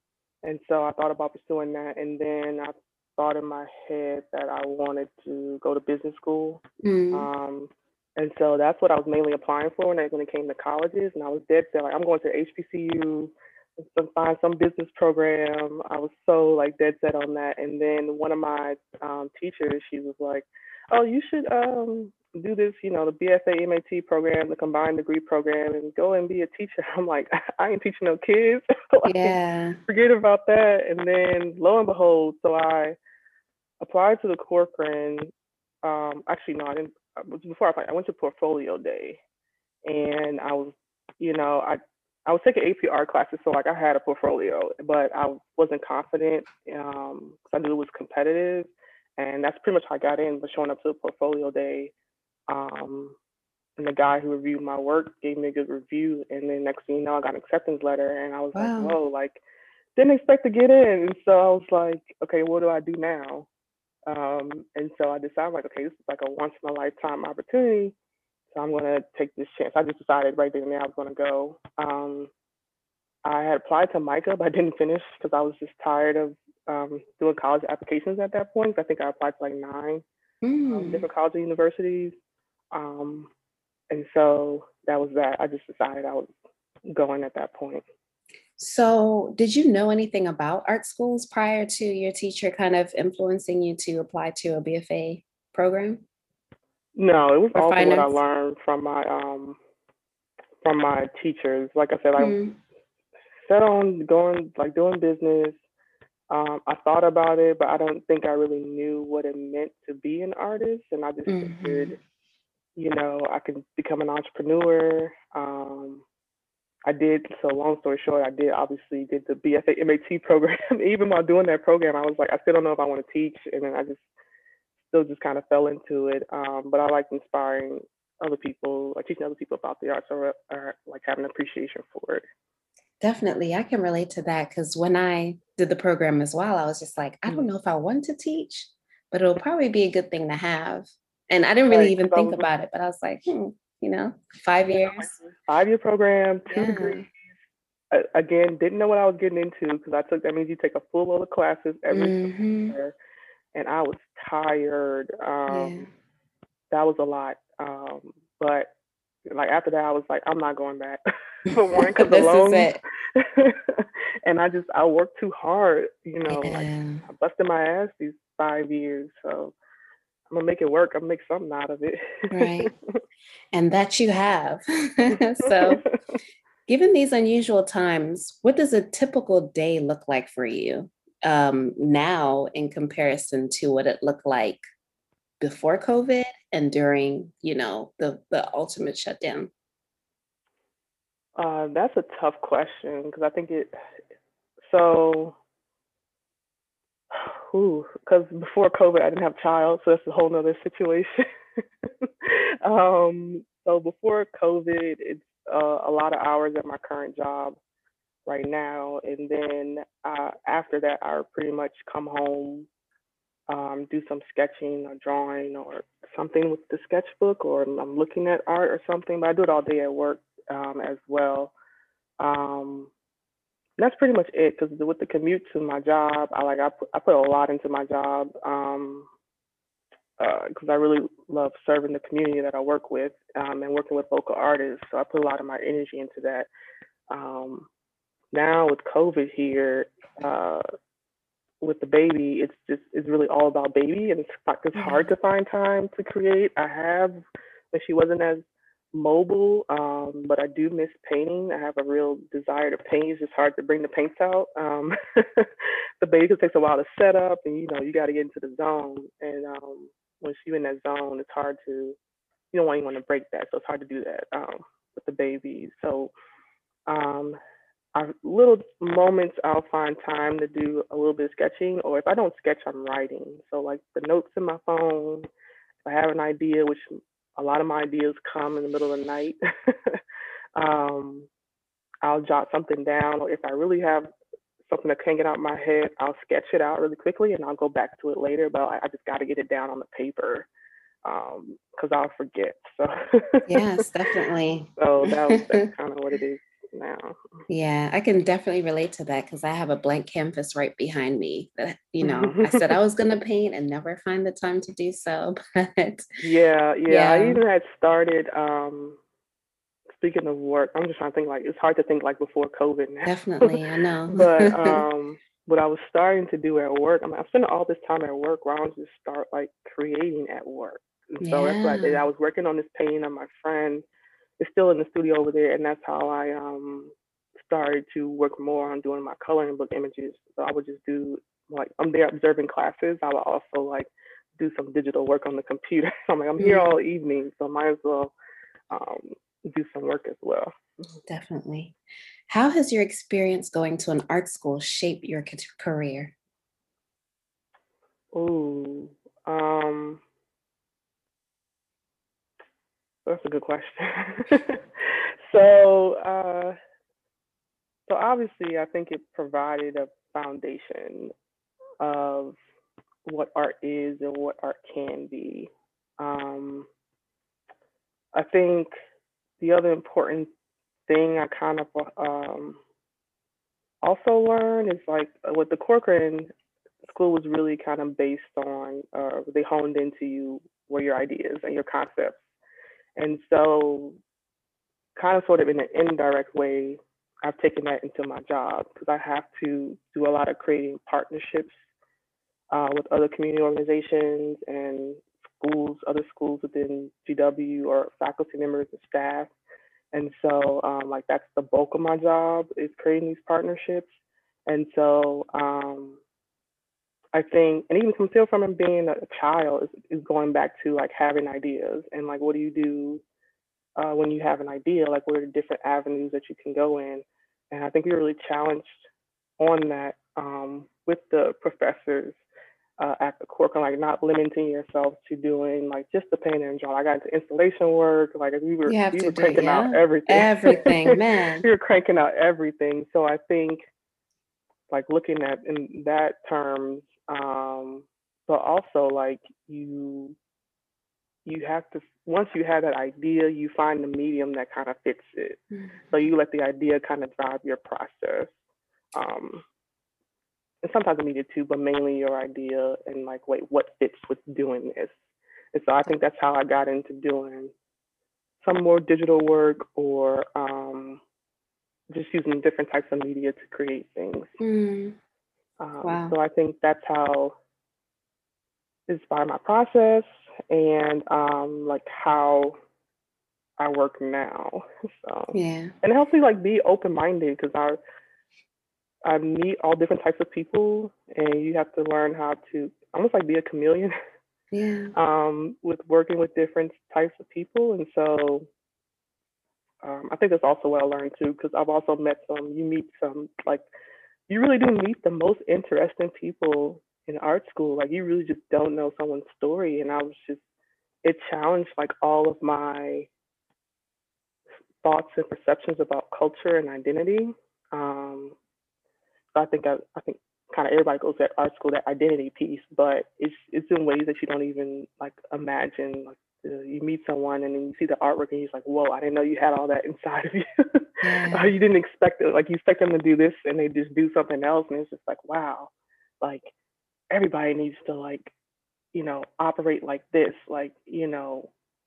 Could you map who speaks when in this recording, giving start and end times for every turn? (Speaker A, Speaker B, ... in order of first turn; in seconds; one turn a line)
Speaker A: 0.4-29.4
Speaker B: 6.8-7.3
Speaker B: 29.1-29.8
Speaker A: 29.9-33.0
Speaker A: 33.8-35.3
Speaker A: 35.8-39.2
Speaker A: 39.9-51.9
Speaker A: 52.5-53.2
Speaker A: 53.8-59.4
Speaker B: 58.5-59.0
Speaker A: 60.0-63.5
Speaker A: 64.1-68.0
Speaker A: 68.5-72.3
Speaker A: 73.2-80.0
Speaker B: 80.4-81.0
Speaker A: 80.7-82.2
Speaker A: 82.7-83.3
Speaker A: 83.9-86.3
Speaker A: 86.9-87.8
Speaker B: 88.6-96.0
Speaker A: 97.0-99.6
Speaker B: 97.5-98.2
Speaker A: 100.6-102.4
Speaker B: 102.2-102.6
Speaker A: 103.5-105.6
Speaker A: 106.3-112.0
Speaker B: 111.3-112.0
Speaker A: 112.8-116.0
Speaker A: 116.9-124.0
Speaker A: 124.9-132.2
Speaker B: 133.0-145.1
Speaker A: 141.7-142.5
Speaker A: 144.7-147.1
Speaker B: 146.5-147.1
Speaker A: 147.9-152.9
Speaker B: 151.9-152.8
Speaker A: 153.5-155.9
Speaker B: 155.5-155.9
Speaker A: 156.7-158.7
Speaker A: 159.3-169.6
Speaker B: 161.8-162.8
Speaker B: 166.3-167.0
Speaker A: 170.3-173.0
Speaker B: 172.3-172.7
Speaker B: 173.5-175.8
Speaker A: 175.4-175.9
Speaker B: 176.7-184.6
Speaker B: 185.4-189.5
Speaker A: 191.4-193.7
Speaker A: 194.7-195.4
Speaker A: 197.1-201.3
Speaker A: 202.0-207.6
Speaker A: 208.3-212.7
Speaker A: 213.5-221.5
Speaker A: 222.2-222.9
Speaker A: 223.8-229.1
Speaker A: 230.2-236.5
Speaker A: 237.1-237.7
Speaker A: 238.3-240.6
Speaker A: 241.6-247.2
Speaker B: 244.8-245.1
Speaker A: 247.7-255.5
Speaker A: 256.0-262.0
Speaker A: 262.5-266.1
Speaker A: 266.9-267.4
Speaker A: 267.9-275.3
Speaker A: 275.9-280.0
Speaker A: 280.6-281.3
Speaker A: 282.0-284.1
Speaker A: 284.7-290.5
Speaker A: 291.0-293.8
Speaker B: 293.5-295.6
Speaker A: 294.8-297.3
Speaker B: 297.5-306.2
Speaker A: 302.0-302.8
Speaker A: 306.2-309.0
Speaker B: 306.9-307.4
Speaker A: 310.0-323.8
Speaker B: 313.1-314.8
Speaker B: 321.2-322.0
Speaker A: 324.4-338.1
Speaker B: 336.4-336.7
Speaker A: 338.7-340.5
Speaker B: 341.1-341.8
Speaker B: 342.3-346.1
Speaker A: 348.1-350.0
Speaker A: 353.1-356.6
Speaker A: 357.9-361.1
Speaker A: 361.8-362.4
Speaker A: 363.1-366.7
Speaker A: 368.1-368.7
Speaker A: 369.4-370.3
Speaker A: 370.9-372.6
Speaker A: 373.8-376.3
Speaker A: 376.9-382.2
Speaker A: 383.0-384.0
Speaker A: 385.0-391.6
Speaker A: 392.5-399.3
Speaker A: 399.9-403.9
Speaker A: 404.5-406.0
Speaker A: 407.1-413.0
Speaker A: 413.8-418.8
Speaker A: 419.4-422.2
Speaker A: 422.8-433.6
Speaker B: 428.7-431.4
Speaker A: 434.7-440.2
Speaker A: 441.3-448.3
Speaker B: 445.5-446.0
Speaker A: 448.9-449.4
Speaker A: 450.6-455.0
Speaker A: 455.5-457.5
Speaker A: 458.4-461.0
Speaker A: 461.9-464.3
Speaker B: 464.4-465.0
Speaker A: 465.6-467.4
Speaker B: 465.8-466.1
Speaker A: 468.9-472.6
Speaker A: 473.6-477.8
Speaker B: 475.3-475.7
Speaker A: 479.1-483.9
Speaker B: 484.5-484.9
Speaker A: 484.9-488.5
Speaker A: 489.8-493.6
Speaker A: 494.3-500.4
Speaker A: 501.0-503.1
Speaker A: 504.8-508.4
Speaker A: 509.4-525.7
Speaker B: 521.0-521.5
Speaker A: 526.2-526.5
Speaker A: 527.1-528.3
Speaker A: 528.9-531.5